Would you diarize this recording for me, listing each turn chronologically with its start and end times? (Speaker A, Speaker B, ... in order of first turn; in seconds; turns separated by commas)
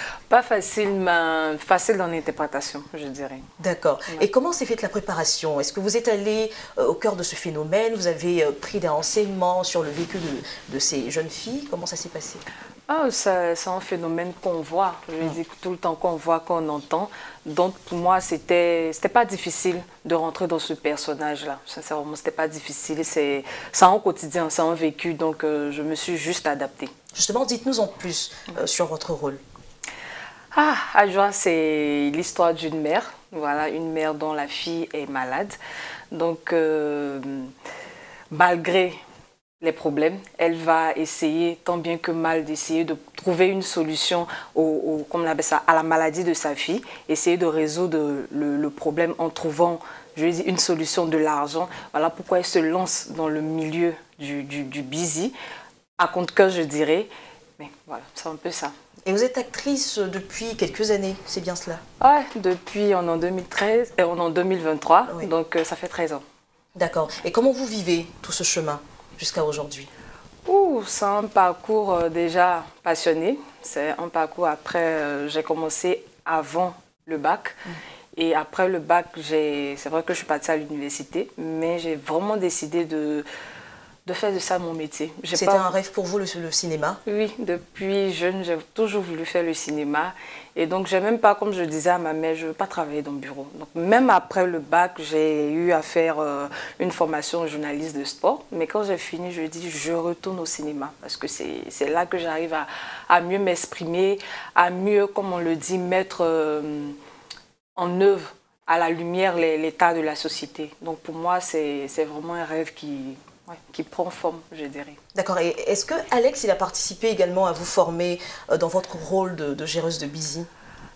Speaker A: 0.3-3.5, Speaker B: 3.6-12.4, Speaker A: 12.9-26.9, Speaker B: 27.1-29.4, Speaker A: 30.5-35.5, Speaker A: 36.1-37.5, Speaker A: 38.3-39.0, Speaker A: 39.6-55.3, Speaker A: 56.0-58.7, Speaker B: 59.0-61.8, Speaker A: 62.0-66.2, Speaker B: 66.8-69.9, Speaker A: 70.5-77.6, Speaker A: 78.1-83.2, Speaker A: 84.0-85.7, Speaker B: 85.3-87.0, Speaker A: 87.0-106.9, Speaker A: 107.8-115.0, Speaker B: 115.1-120.5